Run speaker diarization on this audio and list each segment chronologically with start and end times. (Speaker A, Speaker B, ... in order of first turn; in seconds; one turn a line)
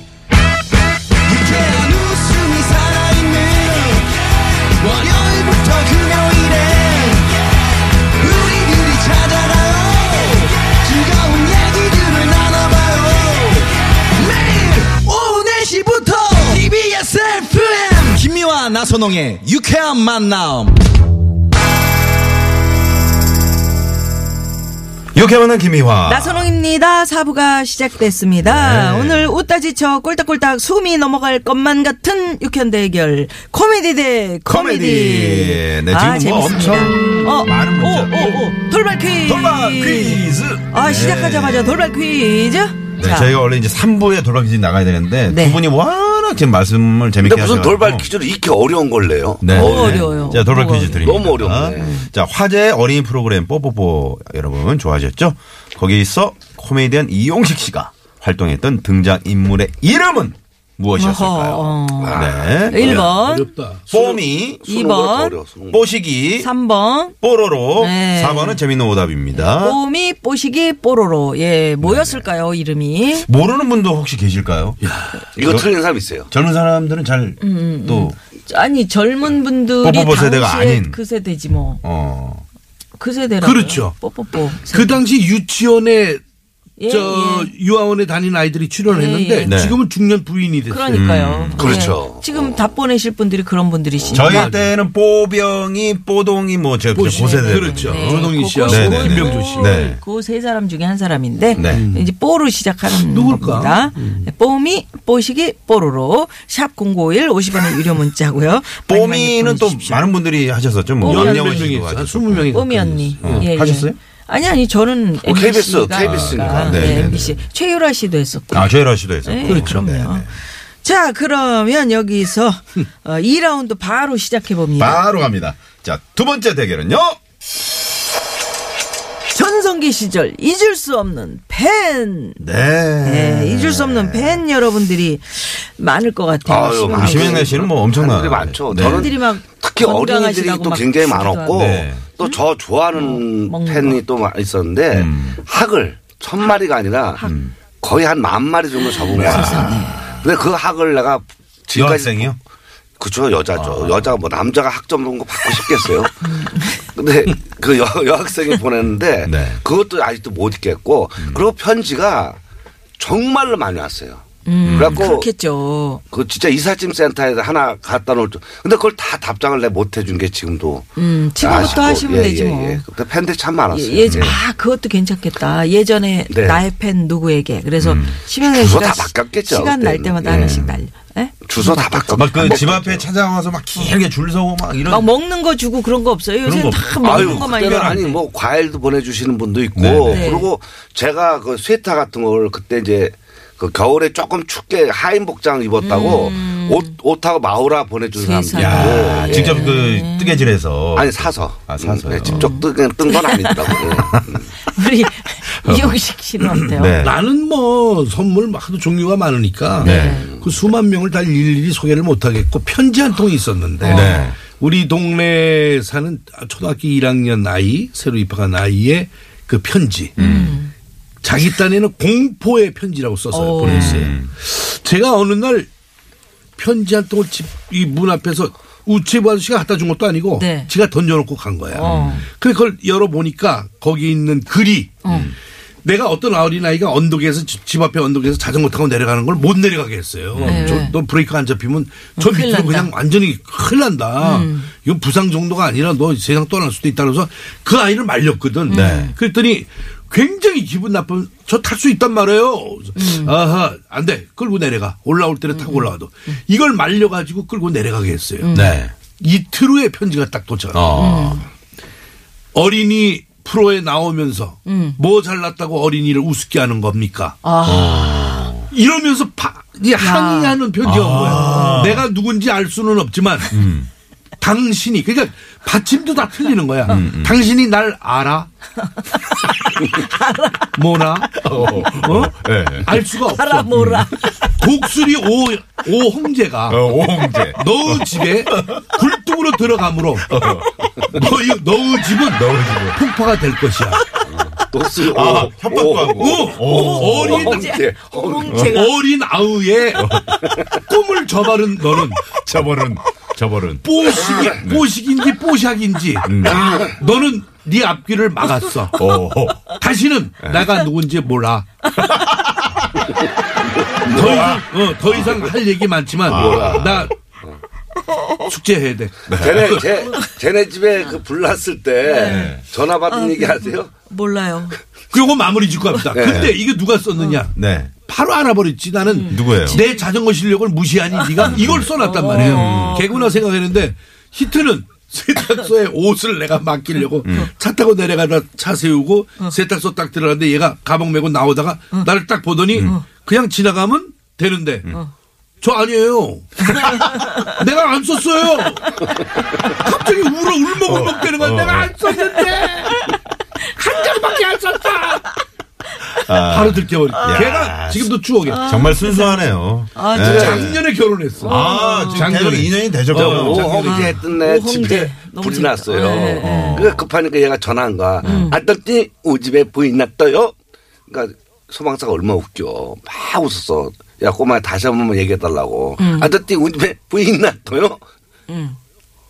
Speaker A: 1.3-4.1
Speaker A: 4.8-7.3
Speaker A: 8.2-20.8
Speaker B: 25.1-26.5
Speaker C: 26.1-43.4
Speaker B: 28.4-29.3
Speaker B: 34.5-38.5
Speaker B: 39.2-41.8
Speaker B: 43.0-48.1
Speaker C: 45.3-45.6
Speaker D: 47.2-50.4
Speaker B: 49.4-63.1
Speaker C: 49.5-51.1
Speaker D: 51.0-52.0
Speaker C: 61.0-63.5
Speaker D: 62.0-63.0
Speaker E: 62.7-63.9
Speaker B: 63.9-64.7
Speaker D: 63.9-65.8
Speaker C: 64.7-65.4
Speaker B: 65.7-66.5
Speaker C: 66.4-67.2
Speaker B: 67.2-69.8
Speaker C: 67.8-68.6
Speaker C: 69.3-73.3
Speaker B: 71.8-72.3
Speaker B: 73.2-74.8
Speaker E: 74.8-75.2
Speaker D: 75.3-76.3
Speaker B: 75.4-75.7
Speaker B: 76.3-78.1
Speaker C: 77.4-81.8
Speaker B: 79.8-81.0
Speaker B: 81.8-82.4
Speaker C: 83.0-85.0
Speaker E: 83.4-84.0
Speaker E: 84.7-86.2
Speaker C: 86.8-87.5
Speaker E: 86.8-91.1
Speaker C: 88.9-89.6
Speaker B: 89.5-89.8
Speaker C: 90.7-94.5
Speaker B: 90.9-91.9
Speaker D: 91.6-92.7
Speaker B: 94.1-100.0
Speaker E: 94.3-94.6
Speaker E: 96.9-99.8
Speaker C: 97.4-110.1
Speaker B: 101.5-101.9
Speaker E: 101.6-102.1
Speaker E: 103.0-104.3
Speaker B: 108.9-112.6
Speaker C: 111.0-111.8
Speaker E: 111.0-113.5
Speaker C: 112.5-120.3
Speaker B: 113.2-114.0
Speaker D: 115.2-117.2
Speaker B: 116.0-117.4
Speaker B: 118.5-120.3
Speaker E: 119.4-119.8
Speaker C: 120.8-125.0
Speaker B: 124.8-127.2
Speaker C: 129.3-132.4
Speaker B: 132.4-134.4
Speaker C: 133.0-137.5
Speaker D: 136.4-152.3
Speaker B: 136.9-139.2
Speaker C: 138.7-142.4
Speaker B: 141.5-142.1
Speaker C: 142.9-144.0
Speaker B: 144.9-145.4
Speaker B: 147.2-147.5
Speaker C: 149.1-150.1
Speaker B: 149.2-150.1
Speaker B: 151.7-152.4
Speaker D: 153.0-156.2
Speaker B: 153.5-154.2
Speaker C: 156.2-156.9
Speaker D: 156.9-162.4
Speaker B: 159.2-159.6
Speaker B: 161.2-161.4
Speaker D: 163.0-165.3
Speaker C: 164.4-166.0
Speaker B: 164.6-165.1
Speaker D: 166.1-170.9
Speaker C: 170.9-172.8
Speaker D: 171.4-174.3
Speaker C: 173.7-182.6
Speaker B: 174.1-174.4
Speaker D: 176.3-176.6
Speaker B: 177.8-178.2
Speaker D: 178.5-180.6
Speaker B: 180.2-180.8
Speaker D: 181.5-183.1
Speaker B: 182.1-185.1
Speaker C: 184.8-188.2
Speaker B: 186.4-188.1
Speaker D: 187.0-199.8
Speaker B: 189.7-190.4
Speaker C: 190.1-190.5
Speaker C: 195.8-196.9
Speaker C: 198.1-200.6
Speaker B: 198.5-202.6
Speaker D: 200.9-204.5
Speaker C: 202.2-203.8
Speaker B: 204.0-204.2
Speaker C: 204.6-207.1
Speaker B: 205.7-206.0
Speaker B: 206.6-207.2
Speaker E: 207.0-220.2
Speaker B: 209.8-210.3
Speaker C: 209.8-210.3
Speaker B: 213.8-214.4
Speaker C: 213.8-214.3
Speaker C: 220.2-220.7
Speaker B: 220.2-220.6
Speaker E: 221.2-225.7
Speaker C: 223.3-224.1
Speaker B: 223.6-224.3
Speaker E: 226.6-235.0
Speaker C: 230.3-230.7
Speaker C: 231.7-232.2
Speaker B: 231.8-232.3
Speaker C: 235.0-235.3
Speaker B: 235.1-235.3
Speaker E: 235.8-258.5
Speaker B: 240.3-240.9
Speaker C: 240.4-241.0
Speaker C: 242.2-242.9
Speaker C: 244.2-244.7
Speaker C: 248.7-249.1
Speaker B: 248.7-249.1
Speaker C: 252.9-253.3
Speaker C: 255.5-255.9
Speaker C: 258.4-258.8
Speaker B: 258.5-258.9
Speaker E: 259.2-261.2
Speaker B: 260.7-261.4
Speaker C: 260.9-261.4
Speaker E: 262.5-267.4
Speaker C: 264.6-265.0
Speaker C: 267.4-268.5
Speaker B: 267.6-268.7
Speaker E: 268.7-273.6
Speaker C: 270.0-270.6
Speaker B: 270.8-272.1
Speaker C: 271.2-271.8
Speaker B: 273.5-273.9
Speaker E: 274.4-278.5
Speaker B: 276.8-277.5
Speaker C: 278.8-280.8
Speaker E: 280.7-286.9
Speaker B: 281.4-283.0
Speaker C: 283.2-284.6
Speaker B: 283.7-284.1
Speaker B: 286.7-289.0
Speaker E: 287.5-290.3
Speaker B: 290.2-291.4
Speaker E: 291.1-294.1
Speaker B: 292.2-293.0
Speaker D: 294.3-298.8
Speaker B: 294.9-297.6
Speaker E: 296.1-297.7
Speaker C: 296.6-299.0
Speaker B: 298.5-298.8
Speaker E: 298.5-302.2
Speaker B: 299.9-300.6
Speaker B: 302.1-304.9
Speaker E: 303.8-309.0
Speaker B: 306.2-306.8
Speaker B: 308.9-309.7
Speaker E: 309.7-311.7
Speaker B: 310.4-310.7
Speaker B: 311.9-313.0
Speaker E: 314.1-317.1
Speaker B: 314.2-315.5
Speaker B: 316.3-317.1
Speaker D: 316.3-316.9
Speaker E: 318.4-320.0
Speaker B: 319.3-319.7
Speaker D: 319.4-323.9
Speaker C: 322.0-324.8
Speaker B: 322.3-322.6
Speaker E: 325.1-344.9
Speaker D: 326.1-326.6
Speaker B: 327.5-327.9
Speaker C: 329.0-330.1
Speaker B: 329.3-329.8
Speaker C: 331.2-333.4
Speaker B: 331.4-333.0
Speaker B: 337.2-337.5
Speaker C: 342.8-343.1
Speaker E: 345.6-353.1
Speaker C: 346.7-347.4
Speaker B: 350.8-351.9
Speaker C: 352.3-353.1
Speaker E: 353.7-355.3
Speaker B: 356.2-360.8
Speaker E: 356.5-358.6
Speaker C: 358.5-360.6
Speaker E: 360.2-364.1
Speaker D: 360.2-360.6
Speaker C: 361.4-362.4
Speaker B: 361.4-364.1
Speaker D: 363.2-370.5
Speaker C: 363.8-366.9
Speaker B: 366.4-367.1
Speaker B: 368.2-368.5
Speaker C: 368.2-368.6
Speaker D: 371.1-378.0
Speaker C: 376.0-376.3
Speaker C: 378.5-378.8